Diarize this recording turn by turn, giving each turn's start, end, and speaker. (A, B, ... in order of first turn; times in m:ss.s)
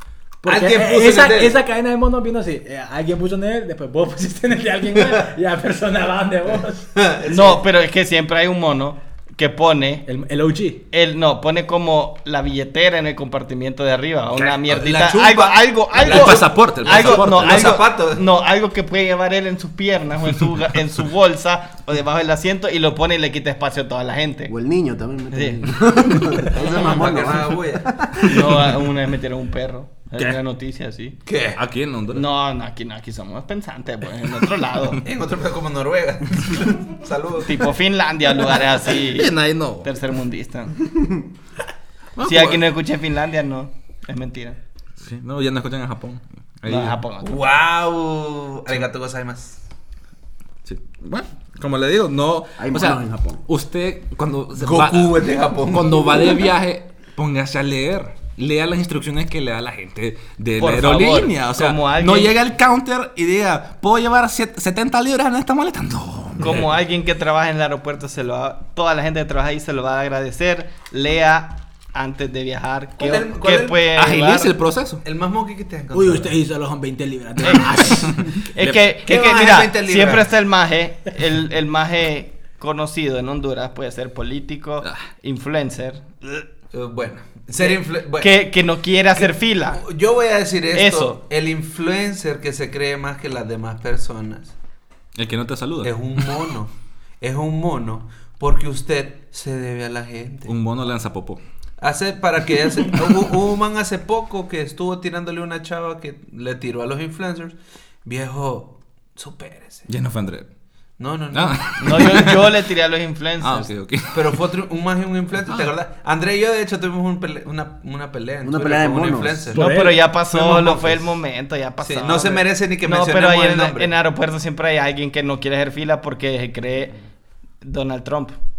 0:00.4-0:06.9 A
0:00.4-0:01.6 B
0:07.0-0:07.6 B
0:07.3-0:10.1 C
0:10.1-0:10.8 A
0:10.9-0:24.5 C
0:14.7-0:18.2 B
0:16.0-0:17.8 D
0:24.5-0:28.4 E
0:25.3-0:26.5 C
0:26.5-0:28.3 B
0:28.2-0:31.2 C
0:31.3-0:31.6 B
0:31.6-0:32.2 D
0:32.1-0:35.0 C
0:35.0-0:37.7 B
0:37.4-0:40.8 C
0:39.0-0:39.9 D
0:42.2-0:42.6 D
0:42.2-0:44.6 C
0:45.0-0:47.0 D
0:46.7-0:47.3 C
0:47.2-0:49.6 B
0:50.6-1:06.8 D
0:52.6-0:53.4 E
0:54.6-0:56.5 B
1:00.6-1:02.4 C
1:06.4-1:14.6 C
1:13.0-1:13.8 B
1:13.9-1:15.0 D
1:15.0-1:16.3 B
1:15.9-1:18.3 A
1:17.4-1:17.8 C
1:18.4-1:26.4 C
1:18.6-1:18.9 D
1:19.0-1:20.3 B
1:26.7-1:28.3 B
1:27.6-1:29.8 C
1:29.2-1:34.5 B
1:30.7-1:31.2 C
1:35.2-1:36.3 D
1:35.8-1:40.5 B
1:40.5-1:41.4 D
1:41.8-1:49.9 B
1:49.9-1:50.5 D
1:51.0-1:52.3 B
1:51.3-1:52.4 D
1:51.8-1:53.7 C
1:53.4-1:54.4 D
1:54.1-1:59.6 B
1:55.5-1:55.7 D
1:58.4-1:59.5 E
1:59.5-2:00.0 A
1:59.6-2:06.9 C
2:00.3-2:01.1 B
2:01.8-2:03.9 B
2:07.6-2:08.4 C